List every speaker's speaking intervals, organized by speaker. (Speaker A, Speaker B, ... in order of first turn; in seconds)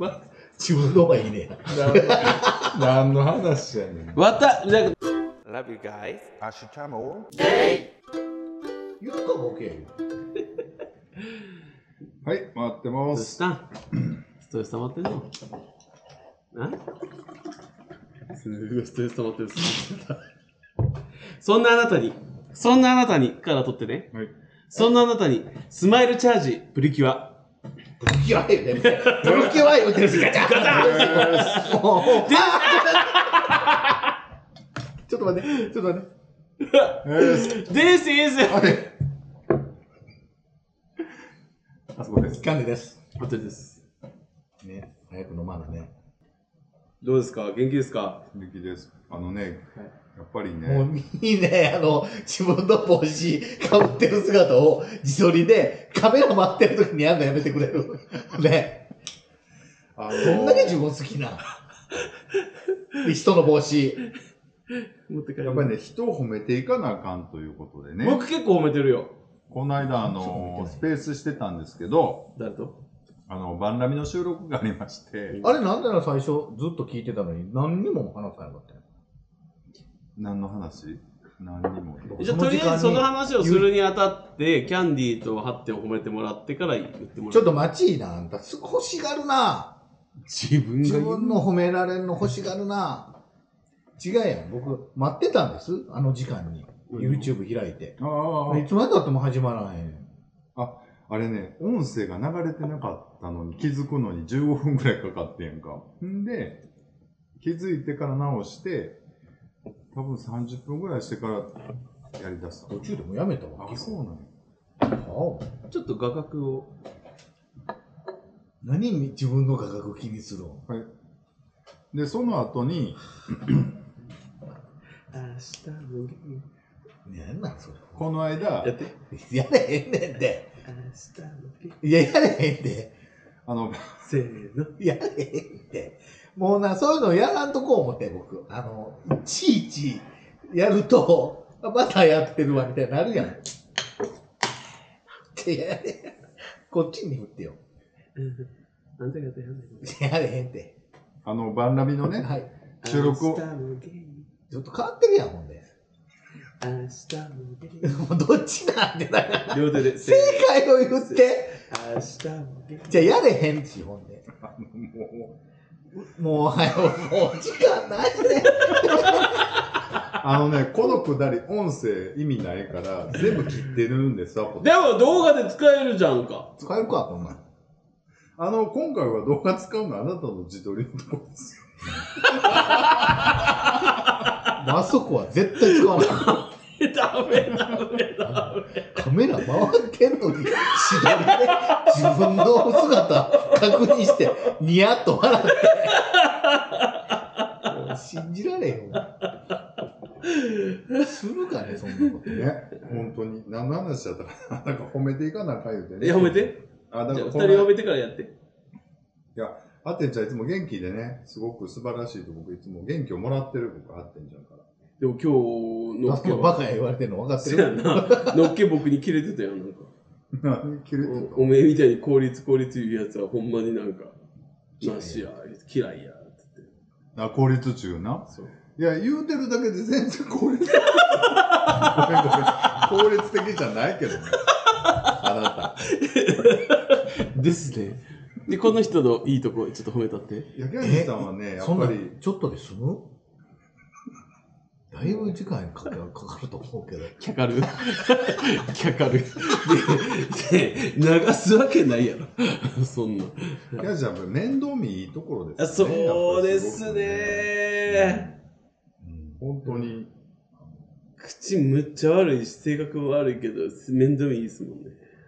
Speaker A: 0.6-2.7, 9.0-9.9, 28.0-33.6, 35.1-36.1, 42.3-43.0, 44.6-45.9, 50.6-58.9, 60.1-61.4, 63.0-64.0, 69.9-70.9, 75.4-78.8, 82.0-83.7, 87.3-89.8, 90.8-93.2, 94.0-100.1, 112.7-114.0, 114.8-115.5, 118.6-120.7, 127.0-128.1, 128.9-130.5, 131.8-132.9, 134.8-143.4, 145.3-147.6, 149.8-150.7, 152.2-152.5, 154.5-155.7, 157.8-161.6, 162.9-164.3, 165.9-169.5, 176.6-177.4, 184.5-186.4, 188.2-196.1, 197.7-199.1, 201.0-202.5, 216.1-218.6, 224.8-225.3, 240.8-243.1, 244.9-247.1
Speaker B: 1.7-4.3, 6.4-7.5, 12.2-13.4, 29.2-29.6, 30.7-31.8, 37.0-37.7, 38.5-38.9, 42.0-42.4, 48.3-50.9, 60.0-60.9, 65.4-68.3, 69.5-72.3, 73.3-75.4, 80.2-82.4, 98.0-98.7, 100.6-106.6, 107.4-109.0, 109.9-111.6, 112.2-112.9, 113.6-114.3, 121.9-123.7, 128.0-128.8, 133.5-134.1, 151.2-152.3, 152.8-153.4, 164.4-165.4, 170.1-175.1, 178.4-183.5, 202.2-207.7, 209.4-214.7, 220.3-221.6, 227.2-234.5, 235.0-236.0, 240.5-242.2, 253.8-258.4, 259.4-260.1
Speaker C: 4.2-6.3, 13.1-13.7, 14.4-15.3, 16.5-16.8, 18.3-20.2, 21.4-24.1, 24.7-27.4, 28.8-34.1, 36.6-38.9, 43.2-43.8, 47.0-48.2, 64.7-65.8, 68.0-69.2, 72.4-72.8, 75.3-75.6, 82.2-87.6, 90.3-91.5, 96.9-97.3, 115.7-116.7, 125.1-126.5, 128.6-128.9, 130.7-131.8, 134.0-134.7, 148.2-148.5, 149.0-150.0, 152.8-154.3, 156.6-158.0, 159.5-160.5, 161.0-163.1, 174.6-176.5, 182.4-184.6, 185.7-189.0, 190.5-193.8, 195.6-197.7, 200.2-201.1, 206.0-208.3, 215.0-216.6, 217.4-219.9, 221.0-224.2, 224.8-226.7, 230.9-232.3, 234.7-235.1, 235.8-240.5, 247.2-253.8, 255.6-258.3, 261.2-265.1